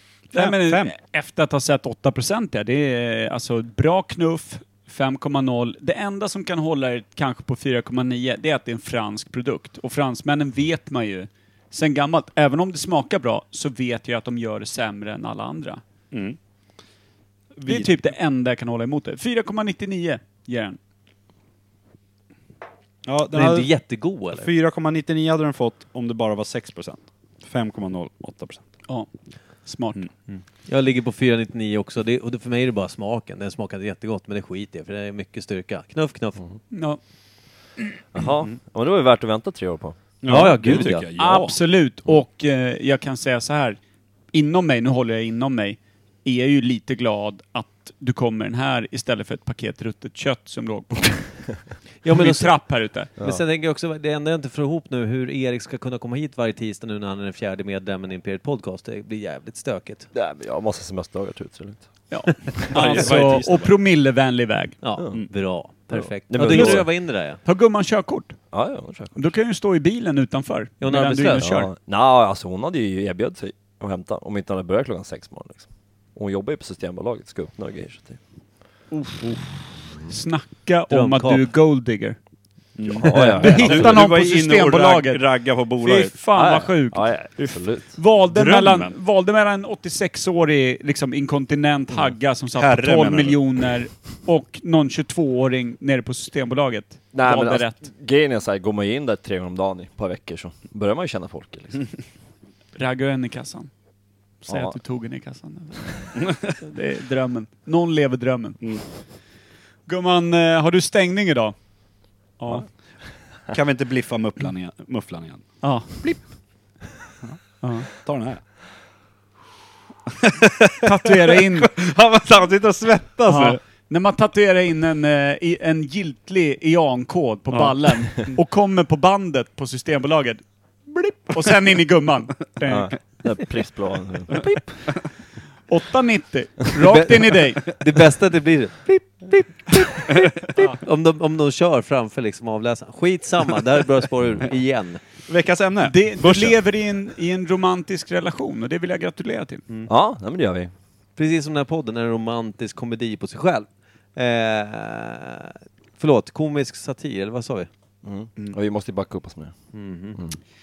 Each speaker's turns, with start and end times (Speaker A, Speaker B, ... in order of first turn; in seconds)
Speaker A: 0.3-0.9, 16.1-16.4, 17.6-17.9, 23.1-23.7, 24.3-28.6, 40.2-41.6, 62.6-63.8, 82.8-86.2, 88.2-88.9, 92.6-93.4, 106.2-106.6, 113.5-116.2, 117.9-118.4, 120.2-123.6, 127.5-128.3, 140.1-140.4, 145.3-146.6
Speaker B: 0.3-15.8, 17.6-20.8, 29.6-30.0, 36.7-37.0, 40.8-43.8, 44.3-53.1, 62.1-64.8, 66.5-68.5, 69.2-71.7, 78.9-82.2, 83.1-85.3, 85.8-97.8, 102.8-103.7, 104.4-108.8, 109.9-111.6, 112.4-112.7, 115.6-116.0, 117.6-117.9, 120.8-121.7, 123.3-133.2, 135.7-137.7, 145.8-149.6
Speaker C: 23.3-24.5, 30.3-36.4, 40.3-41.1, 52.0-60.1, 64.8-67.4, 70.8-71.5, 80.9-81.5, 83.0-83.3, 136.8-145.0, 151.2-157.7, 159.7-160.2
Speaker D: 38.1-40.0, 60.1-62.4, 66.3-66.9, 68.5-69.3, 71.4-78.2, 82.9-84.1, 86.3-88.0, 97.1-101.9, 104.5-104.8, 132.7-134.6, 149.9-150.7, 158.0-159.5